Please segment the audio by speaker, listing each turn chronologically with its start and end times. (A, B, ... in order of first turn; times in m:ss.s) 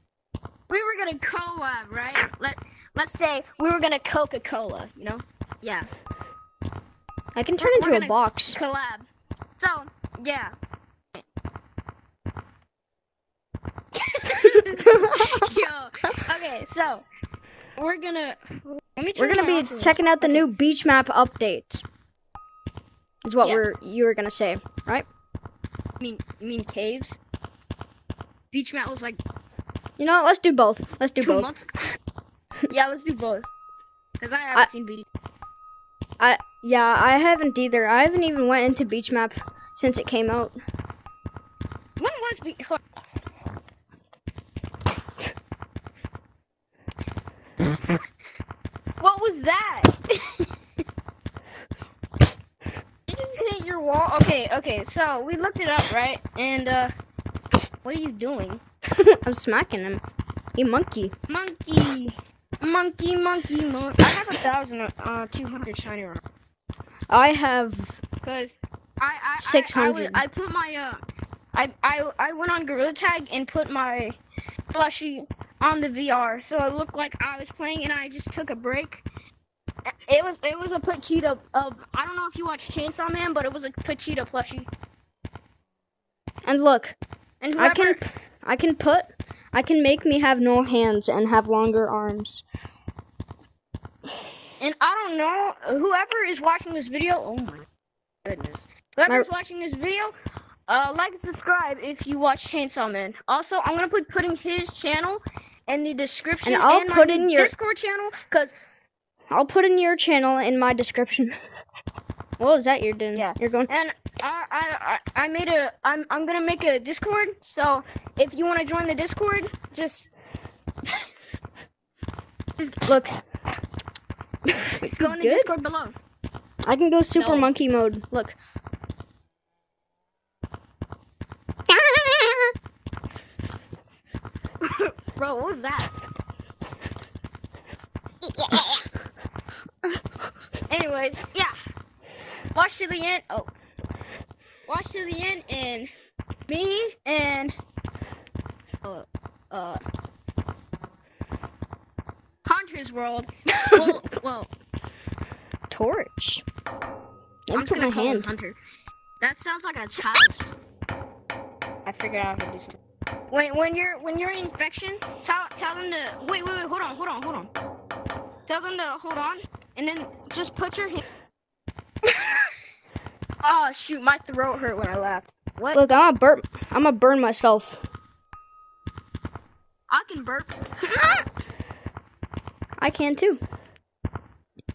0:00.7-0:05.9 A
0:07.3-0:08.6 B
0:07.6-0:09.0 A
0:09.6-0:10.5 A
0:13.9-0:17.0 A
0:14.8-0:15.5 B
0:17.8-0:20.5 A
0:19.2-0:21.8 B
0:23.2-0:25.0 B
0:26.0-0:27.2 A
0:28.5-0:29.2 A
0:30.0-0:31.5 B
0:31.2-0:31.8 A
0:32.7-0:33.5 A
0:34.2-0:35.0 A
0:36.2-0:40.6 B
0:42.0-0:42.8 A
0:49.0-0:50.4 A
0:53.1-0:56.9 A
0:57.8-0:58.6 A
0:58.9-1:00.0 B
1:00.6-1:01.1 B
1:01.3-1:06.2 A
1:07.1-1:08.0 B
1:08.2-1:11.0 A
1:09.4-1:10.2 B
1:11.5-1:14.2 A
1:14.7-1:19.0 A
1:19.9-1:24.7 A
1:26.4-1:27.0 B
1:27.4-1:28.0 A
1:27.6-1:32.4 B
1:34.6-1:37.7 A
1:38.2-1:40.1 A
1:40.7-1:48.5 A
1:46.4-1:47.5 B
1:49.3-1:51.3 B
1:52.4-1:53.7 B
1:53.1-2:00.1 A
2:02.6-2:03.1 A
2:02.9-2:03.2 B
2:04.5-2:05.5 B
2:04.8-2:06.0 A
2:06.6-2:08.4 B
2:07.1-2:07.5 A
2:11.7-2:12.5 B
2:14.6-2:15.9 A
2:18.2-2:18.9 A
2:20.7-2:21.6 A
2:22.5-2:23.5 A
2:24.7-2:25.9 A
2:26.5-2:27.6 A
2:28.8-2:29.8 A
2:32.4-2:34.5 A
2:35.7-2:36.4 B
2:37.5-2:38.3 B
2:37.5-2:38.6 A
2:39.2-2:40.5 A
2:41.8-2:42.8 A
2:43.3-2:47.5 A
2:48.5-2:51.0 A
2:53.4-2:55.8 A
2:55.7-2:57.8 B
2:59.9-3:01.2 A
3:02.8-3:03.4 B